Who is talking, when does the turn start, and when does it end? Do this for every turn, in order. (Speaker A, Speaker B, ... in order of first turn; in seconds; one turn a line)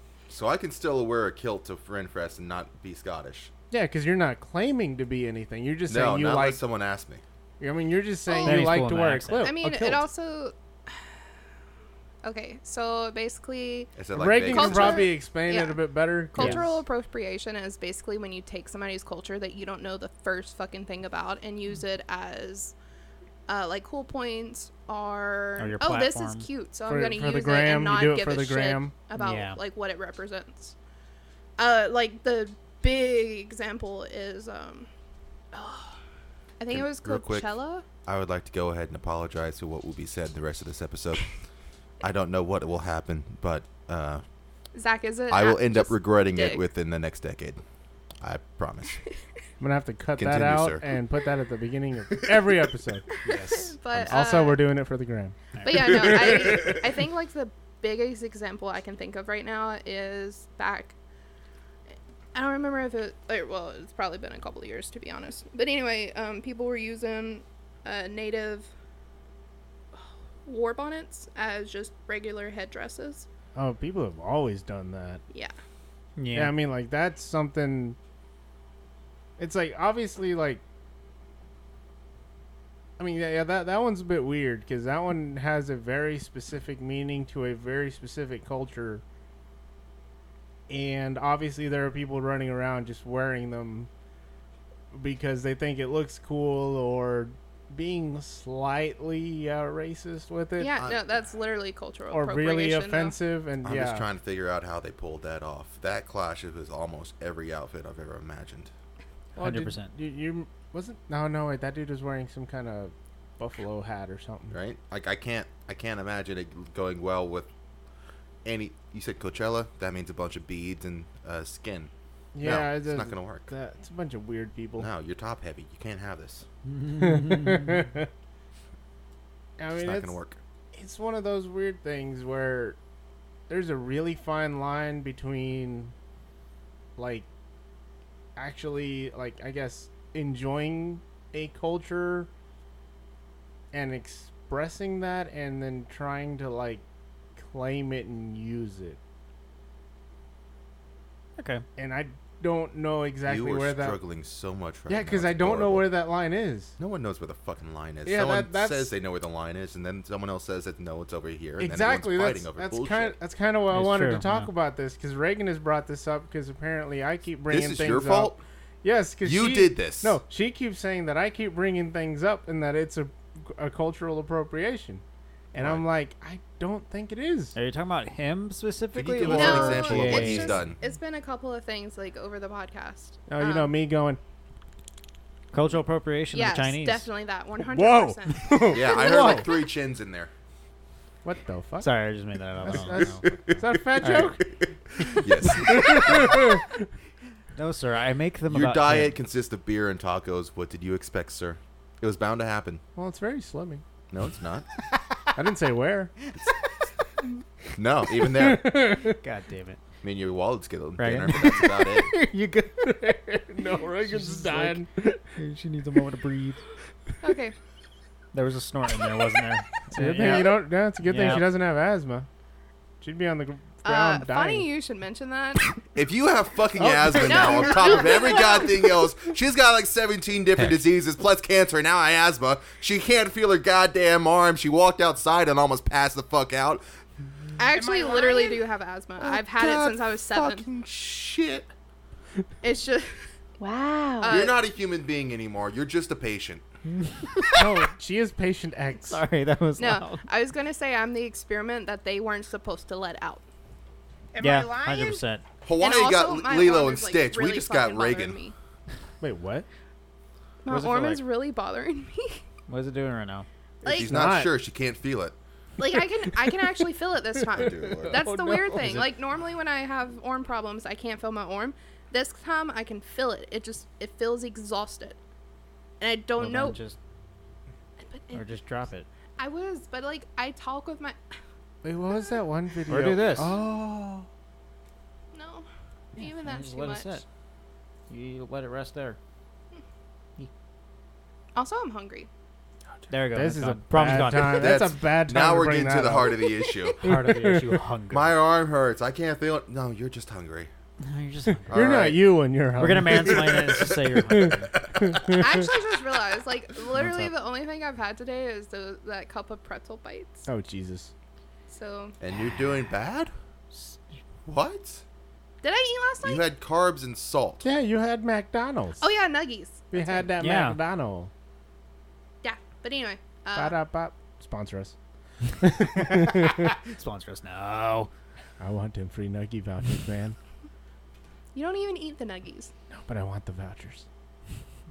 Speaker A: 0.3-3.5
Speaker B: 3.7-6.6
Speaker A: 5.9-7.2
Speaker B: 7.6-10.0
Speaker C: 8.3-8.7
Speaker D: 8.4-9.5
Speaker C: 9.4-11.0
Speaker C: 12.2-13.9
Speaker A: 14.0-15.1
Speaker B: 14.1-16.8
Speaker C: 14.5-22.7
Speaker C: 23.5-30.8
Speaker D: 25.6-26.5
Speaker B: 26.9-28.9
Speaker D: 29.1-29.6
Speaker C: 31.6-34.9
Speaker C: 35.5-36.0
Speaker C: 36.6-37.9
Speaker A: 36.7-37.5
Speaker A: 38.0-41.3
Speaker A: 42.0-44.2
Speaker C: 44.7-46.6
Speaker A: 45.3-47.6
Speaker A: 48.2-49.0
Speaker B: 49.6-53.1
Speaker A: 50.1-50.9
Speaker A: 52.2-52.6
Speaker D: 53.2-53.7
Speaker C: 53.2-54.6
Speaker B: 54.1-55.4
Speaker D: 55.5-56.1
Speaker C: 55.6-60.9
Speaker A: 55.9-56.8
Speaker C: 62.3-68.7
Speaker C: 70.0-73.3
Speaker B: 73.5-75.2
Speaker D: 76.2-76.5
Speaker B: 76.3-78.0
Speaker B: 79.4-80.6
Speaker B: 83.0-89.0
Speaker B: 90.7-93.9
Speaker B: 94.9-100.7
Speaker C: 100.6-103.2
Speaker B: 102.1-104.1
Speaker A: 103.6-108.7
Speaker B: 109.4-114.5
Speaker D: 109.4-109.9
Speaker A: 114.5-117.5
Speaker A: 118.4-123.5
Speaker B: 122.3-124.9
Speaker A: 124.8-126.5
Speaker D: 126.7-127.8
Speaker B: 126.9-128.1
Speaker B: 129.6-130.2
Speaker A: 129.7-130.4
Speaker B: 130.7-132.8
Speaker B: 133.5-135.9
Speaker B: 137.0-137.3
Speaker B: 138.4-142.3
Speaker B: 143.7-146.8
Speaker B: 147.4-149.0
Speaker D: 151.4-151.6
Speaker B: 151.8-154.0
Speaker A: 153.2-156.0
Speaker B: 154.9-156.7
Speaker A: 156.8-163.2
Speaker B: 158.0-158.9
Speaker B: 161.6-175.0
Speaker D: 163.7-164.5
Speaker A: 167.5-168.4
Speaker A: 169.2-170.2
Speaker B: 175.5-177.5
Speaker A: 175.5-175.8
Speaker D: 177.5-180.6
Speaker A: 178.9-180.8
Speaker C: 179.2-183.7
Speaker B: 183.3-184.2
Speaker D: 185.5-187.1
Speaker C: 186.3-189.4
Speaker B: 187.7-189.4
Speaker A: 188.7-190.3
Speaker D: 189.0-189.4
Speaker B: 191.2-191.9
Speaker D: 191.8-193.3
Speaker B: 192.6-194.4
Speaker A: 192.9-194.3
Speaker D: 194.0-194.3
Speaker A: 195.0-196.4
Speaker B: 195.0-196.7
Speaker D: 197.6-199.2
Speaker A: 198.5-202.8
Speaker B: 203.0-203.8
Speaker A: 204.1-204.7
Speaker B: 205.3-206.1
Speaker A: 207.8-209.0
Speaker B: 208.3-209.2
Speaker D: 209.1-209.8
Speaker A: 210.0-212.1
Speaker D: 211.0-213.1
Speaker B: 212.8-215.1
Speaker D: 214.1-216.6
Speaker C: 217.2-217.5
Speaker D: 218.3-221.5
Speaker B: 219.9-222.3
Speaker B: 223.0-224.7
Speaker C: 223.8-225.7
Speaker A: 225.9-236.8
Speaker B: 226.8-228.4
Speaker C: 227.2-228.8
Speaker C: 237.6-240.6
Speaker E: 237.7-238.6
Speaker A: 239.2-241.7
Speaker C: 242.6-243.2
Speaker E: 243.6-244.4
Speaker C: 244.2-244.6
Speaker A: 244.3-246.6
Speaker D: 246.9-247.7
Speaker B: 247.5-249.2
Speaker D: 249.1-250.2
Speaker C: 249.8-253.4
Speaker E: 254.3-255.2
Speaker D: 254.4-255.4
Speaker A: 255.6-258.4
Speaker C: 255.8-258.5
Speaker B: 259.2-259.6
Speaker C: 260.6-262.4
Speaker D: 260.7-261.2
Speaker D: 262.7-263.5
Speaker B: 263.8-264.5
Speaker A: 263.8-265.4
Speaker C: 263.9-264.1
Speaker C: 265.8-275.2
Speaker A: 267.5-268.2
Speaker B: 267.9-269.0
Speaker C: 276.0-276.8
Speaker D: 276.4-277.0
Speaker C: 278.0-278.4
Speaker D: 278.3-279.1
Speaker C: 279.4-281.2
Speaker B: 281.8-284.2
Speaker C: 282.1-282.4
Speaker D: 282.9-283.5
Speaker C: 285.3-287.2
Speaker D: 286.2-287.2
Speaker D: 288.1-289.2
Speaker C: 291.5-292.3
Speaker D: 293.1-294.8
Speaker B: 293.3-297.7
Speaker A: 294.4-297.0
Speaker D: 297.0-298.3
Speaker A: 298.1-300.7
Speaker D: 301.0-301.9
Speaker A: 301.7-302.3
Speaker B: 301.7-305.6
Speaker D: 302.8-304.7
Speaker A: 303.4-303.9
Speaker A: 305.0-305.4
Speaker C: 305.3-310.5
Speaker D: 306.9-307.3
Speaker B: 310.5-311.1
Speaker C: 311.7-312.1
Speaker A: 312.2-313.3
Speaker D: 313.7-314.0
Speaker A: 314.5-315.0
Speaker C: 315.6-316.5
Speaker A: 316.2-317.7
Speaker B: 317.6-319.0
Speaker C: 319.0-320.2
Speaker B: 319.9-321.3
Speaker D: 320.4-320.8
Speaker C: 322.4-323.8
Speaker B: 323.6-324.9
Speaker B: 325.6-326.7
Speaker D: 325.8-328.1
Speaker B: 328.6-330.4
Speaker C: 331.5-332.7
Speaker B: 332.9-334.1